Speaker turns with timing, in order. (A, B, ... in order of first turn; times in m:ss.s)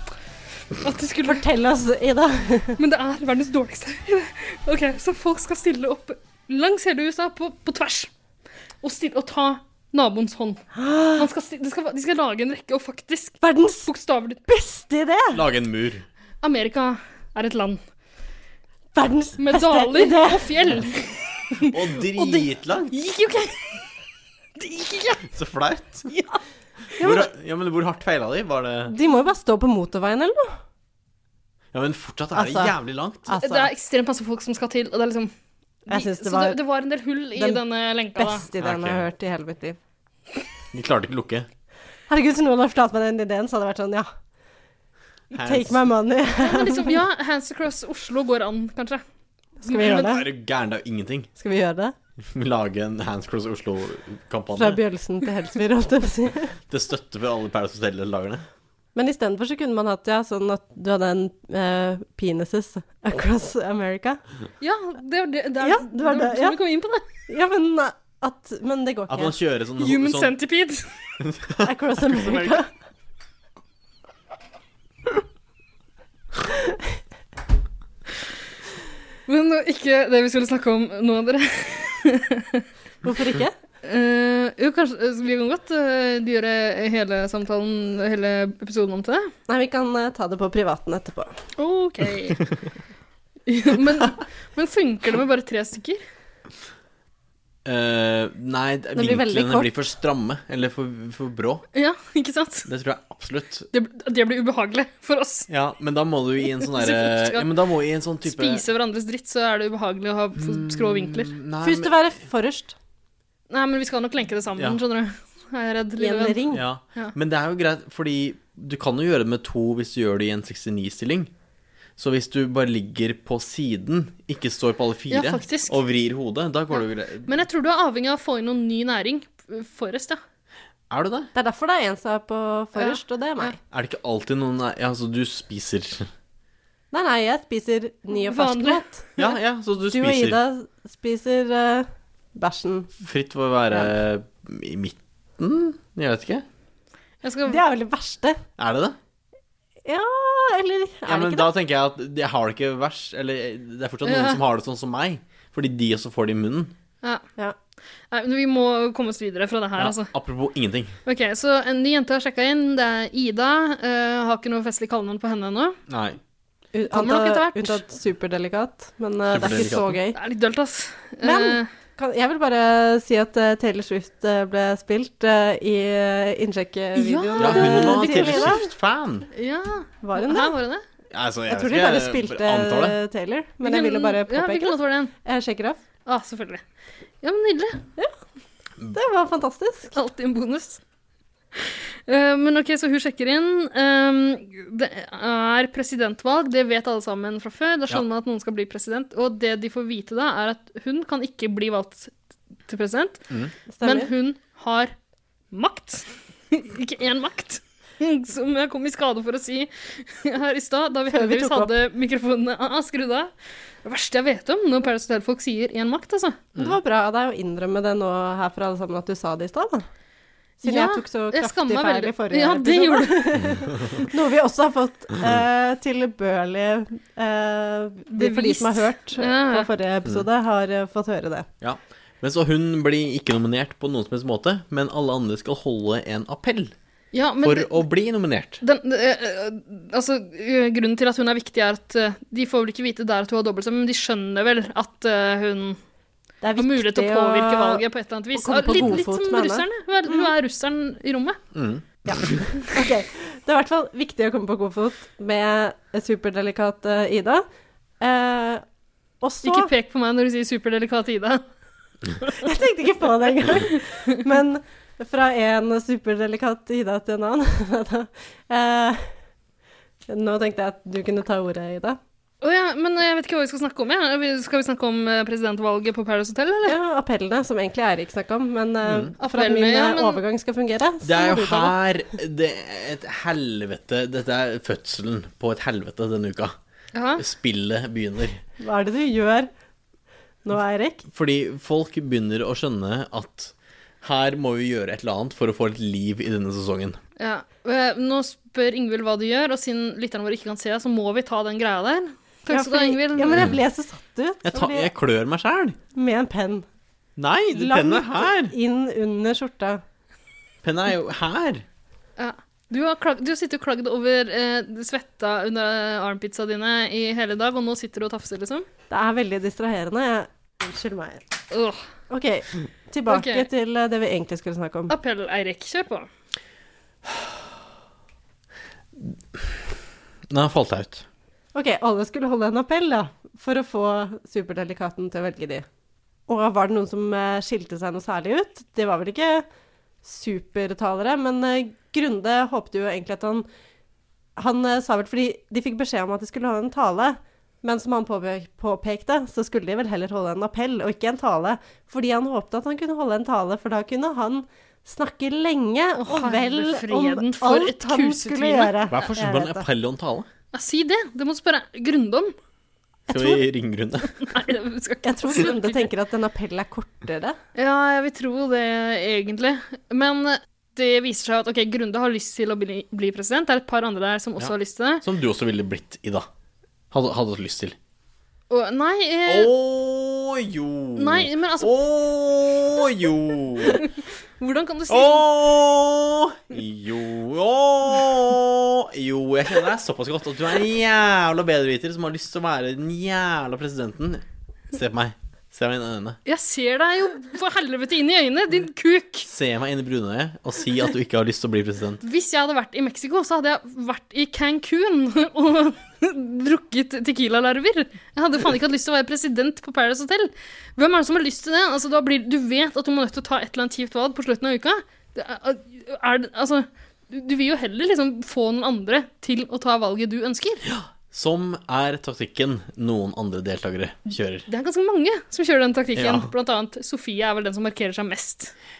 0:00.8-0:01.4 A
0:01.2-0:02.8 B
0:02.8-0:08.1 A
0:08.8-0:10.6 A
0:10.7-0:11.3 B
0:11.2-0:14.4 A
0:13.4-0:13.9 B
0:14.4-0:15.4 B
0:15.3-0:16.1 C
0:16.4-0:17.8 A
0:18.9-0:20.6 B
0:19.4-0:23.8 A
0:21.7-0:22.9 C
0:24.6-0:25.2 A
0:25.3-0:26.1 C
0:26.1-0:26.4 A
0:27.0-0:28.9 C
0:27.0-0:27.3 B
0:28.9-0:30.6 B
0:31.7-0:33.3 C
0:32.3-0:32.7 B
0:33.2-0:33.7 B
0:33.4-0:35.3 A
0:35.9-0:36.6 B
0:35.9-0:38.4 A
0:37.4-0:37.6 B
0:38.2-0:39.8 B
0:38.6-0:39.0 C
0:40.7-0:41.5 C
0:42.1-0:44.1 B
0:45.4-0:45.8 C
0:45.4-0:47.0 B
0:46.4-0:49.0 A
0:49.6-0:50.3 B
0:49.6-0:50.1 A
0:49.8-0:51.3 C
0:51.4-0:51.9 B
0:52.3-0:54.8 C
0:54.5-0:56.6 B
0:56.7-0:58.4 C
0:58.9-1:04.2 B
1:04.6-1:07.1 A
1:05.6-1:06.6 B
1:07.3-1:09.4 B
1:09.1-1:10.4 C
1:09.8-1:10.9 A
1:11.2-1:12.6 C
1:11.6-1:12.7 B
1:19.3-1:22.6 A
1:23.0-1:23.6 B
1:23.8-1:29.3 A
1:29.5-1:31.3 B
1:31.6-1:32.4 A
1:33.5-1:36.0 A
1:37.6-1:41.6 C
1:38.9-1:39.7 B
1:41.7-1:42.7 A
1:42.7-1:43.7 C
1:43.7-1:45.5 A
1:45.5-1:48.6 C
1:46.6-1:47.5 A
1:48.2-1:51.3 A
1:50.4-1:52.0 C
1:51.6-1:52.7 B
1:53.5-1:56.4 A
1:56.0-1:56.6 B
1:56.5-2:01.3 C
2:02.0-2:07.3 C
2:05.1-2:05.8 A
2:06.7-2:10.2 A
2:10.9-2:11.3 C
2:11.3-2:13.6 B
2:12.8-2:13.5 A
2:13.7-2:16.1 C
2:16.9-2:19.2 B
2:18.3-2:18.8 A
2:19.2-2:20.4 C
2:19.9-2:22.9 B
2:23.0-2:26.4 C
2:27.2-2:27.6 A
2:27.5-2:28.4 B
2:28.6-2:29.0 C
2:29.8-2:31.5 B
2:31.1-2:36.7 C
2:34.0-2:34.4 A
2:38.1-2:40.1 A
2:39.8-2:41.0 C
2:41.1-2:45.8 A
2:45.9-2:46.2 C
2:46.7-2:50.2 B
2:46.9-2:47.8 A
2:49.3-2:50.0 C
2:50.1-2:51.7 A
2:51.2-2:58.7 B
2:56.9-2:58.6 A
2:57.4-2:59.3 C
2:59.3-3:00.8 A
3:00.0-3:00.6 B
3:01.1-3:03.0 C
3:01.5-3:05.8 B
3:03.6-3:05.1 A
3:06.1-3:06.6 A
3:07.2-3:07.9 A
3:08.9-3:09.9 B
3:09.9-3:10.8 A
3:11.6-3:22.1 A
3:22.7-3:23.2 A
3:23.7-3:24.1 B
3:23.8-3:24.9 A
3:25.5-3:33.3 A
3:31.1-3:31.8 B
3:33.8-3:36.4 A
3:36.6-3:39.9 B
3:40.6-3:51.5 B
3:40.6-3:43.3 A
3:48.1-3:49.7 A
3:51.6-3:56.7 C
3:57.1-3:57.7 A
3:57.4-3:58.6 C
3:58.6-4:05.8 A
4:06.4-4:10.3 B
4:06.6-4:11.4 A
4:11.6-4:12.5 C
4:12.0-4:17.4 B
4:18.0-4:18.6 B
4:19.2-4:19.7 B
4:19.4-4:21.4 A
4:22.4-4:29.1 B
4:30.1-4:32.0 B
4:32.4-4:36.8 A
4:36.6-4:41.8 B
4:38.8-4:39.1 C
4:39.2-4:40.2 A
4:41.0-4:46.6 C
4:46.9-4:47.2 A
4:47.2-4:48.4 C
4:48.6-4:49.5 B
4:50.4-4:51.1 B
4:51.1-4:57.0 C
4:57.2-5:03.5 A
5:02.5-5:04.9 B
5:04.4-5:05.8 C
5:05.9-5:06.6 B
5:07.2-5:08.5 C
5:07.5-5:09.8 B
5:10.6-5:11.6 C
5:12.2-5:18.7 A
5:18.9-5:21.2 B
5:21.5-5:21.8 A
5:22.1-5:24.9 B
5:23.1-5:23.5 A
5:24.9-5:26.1 A
5:30.3-5:31.0 C
5:31.5-5:35.6 B
5:36.3-5:39.4 B
5:40.0-5:43.5 B
5:44.4-5:59.7 B
5:56.1-5:58.7 A
5:58.9-6:00.3 C
6:00.5-6:02.3 A
6:03.1-6:03.4 B
6:03.1-6:04.3 C
6:04.2-6:05.9 A
6:05.0-6:07.4 B
6:07.6-6:15.0 A
6:14.4-6:16.2 C
6:16.9-6:17.8 C
6:18.5-6:19.5 A
6:19.3-6:23.9 C
6:21.0-6:21.7 A
6:23.6-6:25.3 A
6:24.9-6:36.2 C
6:36.2-6:39.3 A
6:39.3-6:42.0 C
6:42.0-7:00.6 A
7:00.6-7:04.5 C
7:04.5-7:08.5 A
7:06.0-7:06.3 C